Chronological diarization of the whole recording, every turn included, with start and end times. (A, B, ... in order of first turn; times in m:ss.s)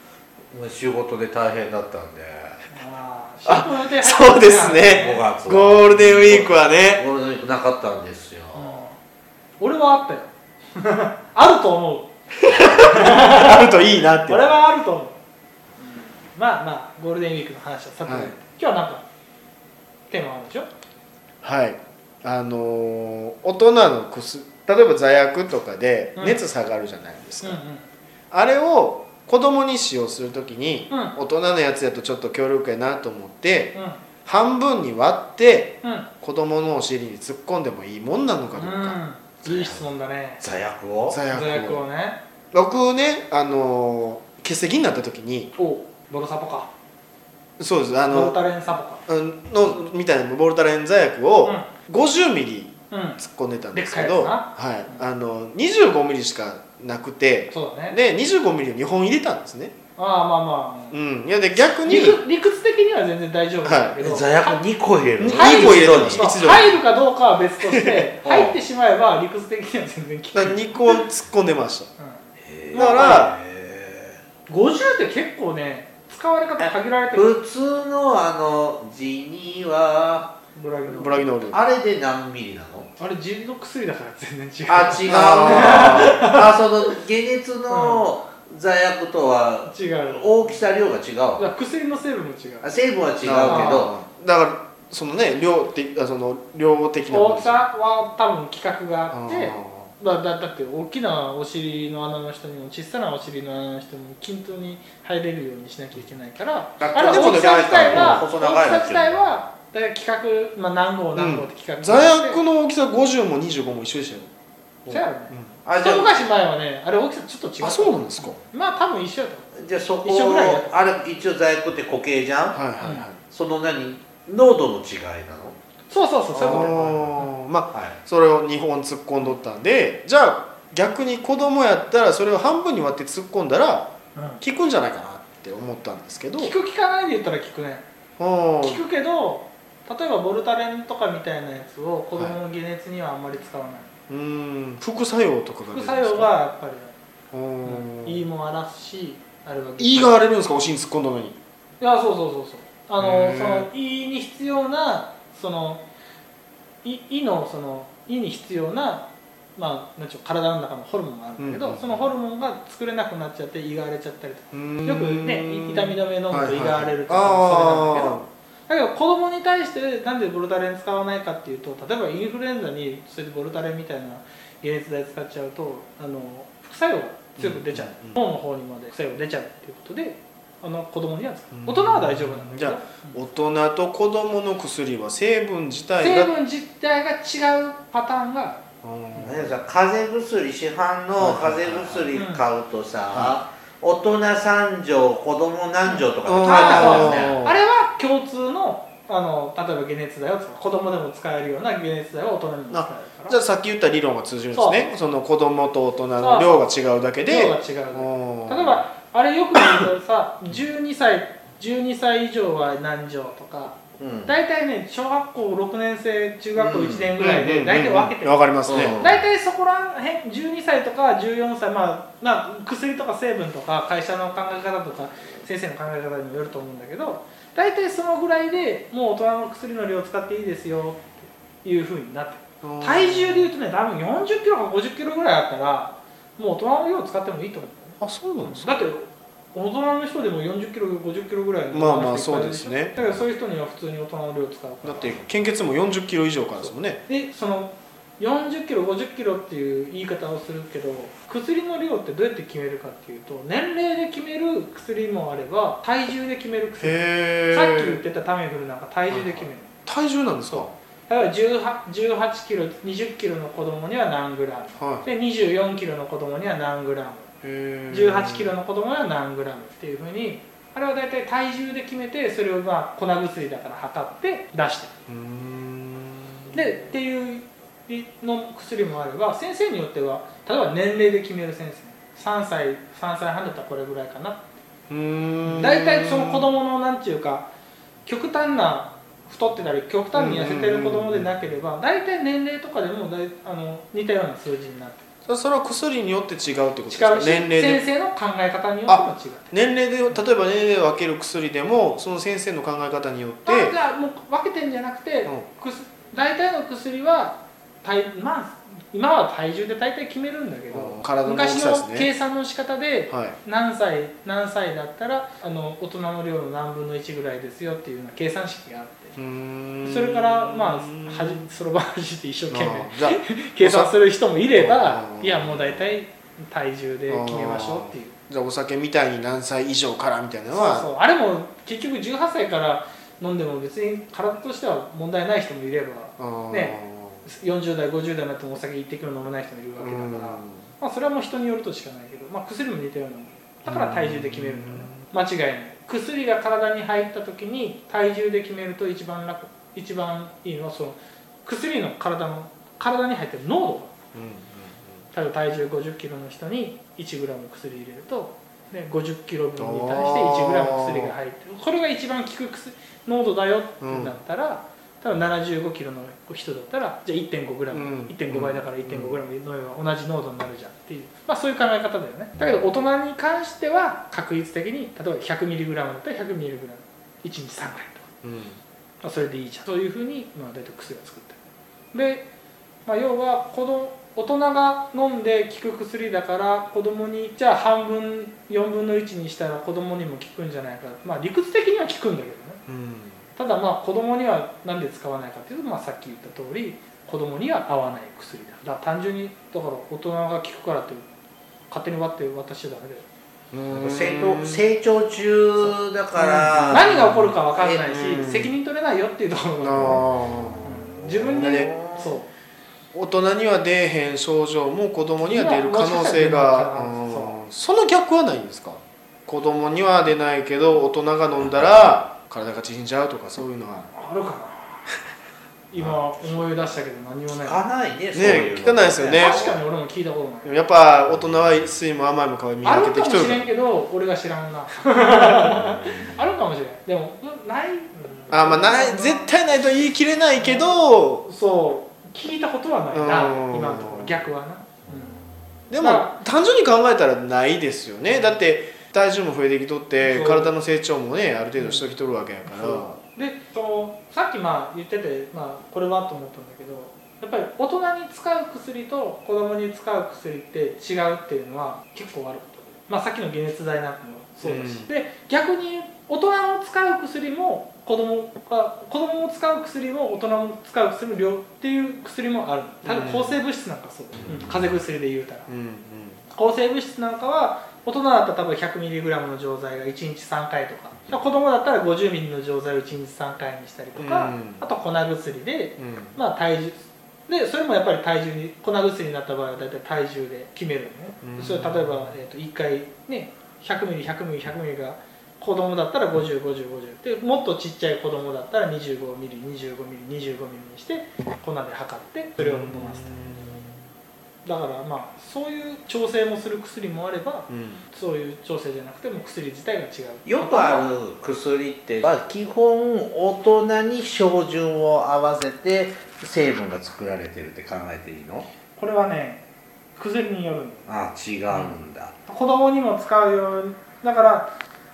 0:00.5-0:02.6 A
0:02.7-0:05.2 B
0:03.4-0:07.1 C
0:04.7-0:08.8 A
0:08.5-0:09.0 B
0:09.6-0:15.2 B
0:12.4-0:14.5 C
0:15.8-0:19.0 B
0:18.0-0:18.3 C
0:20.1-0:20.7 B
0:21.4-0:27.6 C
0:26.2-0:26.4 B
0:27.4-0:27.8 B
0:28.3-0:33.7 C
0:30.9-0:31.1 B
0:33.7-0:34.0 B
0:34.2-0:39.0 C
0:35.8-0:36.1 B
0:38.5-0:40.4 B
0:39.4-0:39.8 A
0:40.4-0:41.2 A
0:41.0-0:41.8 C
0:41.3-0:42.2 B
0:42.5-0:45.5 C
0:45.6-0:46.7 B
0:47.6-0:48.4 C
0:48.1-0:49.0 B
0:49.1-0:59.7 C
0:51.4-0:51.7 B
0:52.9-0:53.2 B
0:53.7-0:55.0 B
0:57.5-0:58.0 B
1:00.0-1:01.0 B
1:00.9-1:02.2 C
1:01.8-1:04.6 B
1:03.6-1:04.0 C
1:04.0-1:06.3 A
1:05.2-1:06.7 C
1:05.3-1:11.0 B
1:07.7-1:08.1 C
1:08.2-1:08.6 A
1:10.3-1:11.9 C
1:12.4-1:14.2 A
1:12.7-1:13.4 C
1:12.7-1:13.2 B
1:14.5-1:17.3 B
1:16.6-1:20.3 A
1:20.5-1:21.5 B
1:20.8-1:21.6 C
1:21.5-1:22.9 A
1:23.0-1:26.5 B
1:24.7-1:31.5 A
1:25.0-1:26.2 C
1:27.7-1:28.1 B
1:29.6-1:30.6 B
1:31.3-1:32.7 B
1:32.6-1:33.9 A
1:33.2-1:37.6 C
1:33.4-1:33.8 B
1:37.1-1:52.4 B
1:39.1-1:39.9 C
1:46.8-1:49.3 A
1:46.9-1:48.2 C
1:51.1-1:54.3 C
1:54.8-1:55.6 C
1:54.9-1:59.5 B
1:55.6-1:56.2 A
1:57.6-1:58.4 C
1:59.6-2:02.6 A
2:00.0-2:00.7 B
2:02.5-2:03.2 C
2:02.8-2:03.1 B
2:03.3-2:05.6 A
2:05.9-2:07.3 B
2:06.3-2:16.5 C
2:06.3-2:07.0 A
2:14.1-2:14.4 B
2:16.4-2:17.8 B
2:18.2-2:18.8 C
2:18.6-2:23.9 B
2:24.1-2:26.3 C
2:25.7-2:26.9 B
2:27.3-2:28.3 C
2:27.6-2:30.2 B
2:29.8-2:31.4 C
2:31.8-2:35.8 B
2:33.0-2:33.7 C
2:36.8-3:03.2 B
2:41.4-2:42.1 C
2:44.5-2:48.3 C
2:57.4-2:58.2 C
3:01.5-3:06.3 C
3:06.0-3:08.6 B
3:08.8-3:09.5 C
3:09.2-3:17.3 A
3:11.2-3:12.1 C
3:12.1-3:12.4 B
3:13.1-3:13.4 C
3:15.9-3:23.4 B
3:16.2-3:17.6 C
3:22.7-3:28.8 C
3:24.5-3:24.9 B
3:26.2-3:26.7 B
3:27.2-4:05.2 B
3:34.0-3:34.3 A
3:36.5-3:37.2 A
3:37.2-3:39.0 C
3:38.6-3:39.2 A
3:52.6-3:53.5 C
3:58.0-3:58.8 C
4:01.7-4:03.0 C
4:04.8-4:07.0 C
4:06.6-4:19.8 B
4:16.8-4:18.0 C
4:19.1-4:20.7 C
4:20.5-4:27.3 B
4:24.8-4:25.0 C
4:27.4-4:28.5 C
4:27.9-4:34.9 B
4:35.1-4:36.6 C
4:36.5-4:44.5 B
4:44.9-4:46.4 C
4:45.4-4:47.5 B
4:48.0-4:55.0 B
4:50.1-4:51.3 C
4:55.2-4:57.8 C
4:56.9-4:59.5 B
4:58.9-5:03.8 C
5:03.4-5:19.2 B
5:10.7-5:12.1 C
5:13.1-5:13.4 C
5:19.2-5:21.4 C
5:19.8-5:28.1 B
5:22.5-5:23.9 C
5:24.5-5:25.9 C
5:27.1-5:30.9 C
5:30.5-5:53.9 B
5:36.2-5:37.2 C
5:39.8-5:40.7 C
5:43.6-5:45.0 C
5:54.1-5:55.0 C
5:55.1-6:18.0 B
5:59.6-6:01.1 C
6:03.8-6:04.1 C
6:07.7-6:09.2 C
6:18.2-6:18.6 C
6:19.0-6:21.4 B
6:21.9-6:22.3 B
6:22.8-6:32.6 B
6:32.7-6:33.2 C
6:33.4-6:41.1 B
6:41.7-6:43.0 B
6:43.5-6:44.7 C
6:43.7-6:47.9 A
6:46.2-6:47.2 C
6:46.7-6:50.0 B
6:47.9-6:48.5 C
6:49.6-6:51.7 C
6:50.6-6:52.3 B
6:51.0-6:52.2 A
6:52.9-7:03.9 C
6:55.2-6:57.4 B
7:03.9-7:04.8 B
7:05.7-7:07.6 B
7:05.8-7:06.4 C
7:07.3-7:09.6 A
7:08.1-7:09.5 C
7:09.0-7:10.5 B
7:10.4-7:13.4 C
7:11.2-7:11.4 A
7:12.6-7:19.5 B
7:15.6-7:16.2 A
7:18.3-7:21.2 C
7:20.3-7:20.7 B
7:21.2-7:25.2 B
7:22.9-7:24.2 C
7:24.8-7:25.6 A
7:25.7-7:33.0 C
7:25.8-7:26.1 B
7:28.0-7:28.4 B
7:30.0-7:30.5 B
7:31.6-7:31.9 B
7:32.4-7:55.5 B
7:44.4-7:44.9 C
7:52.8-7:53.3 C
7:54.2-7:54.4 A
7:55.5-7:56.2 C
7:56.3-8:23.2 B
8:04.0-8:04.6 C
8:05.8-8:06.2 C
8:11.2-8:11.9 C
8:22.4-8:23.8 C
8:24.4-8:31.0 B
8:27.5-8:27.8 C
8:30.2-8:38.5 A
8:38.8-8:39.4 B
8:39.9-8:40.9 B
8:40.9-8:42.1 A
8:41.5-8:44.5 B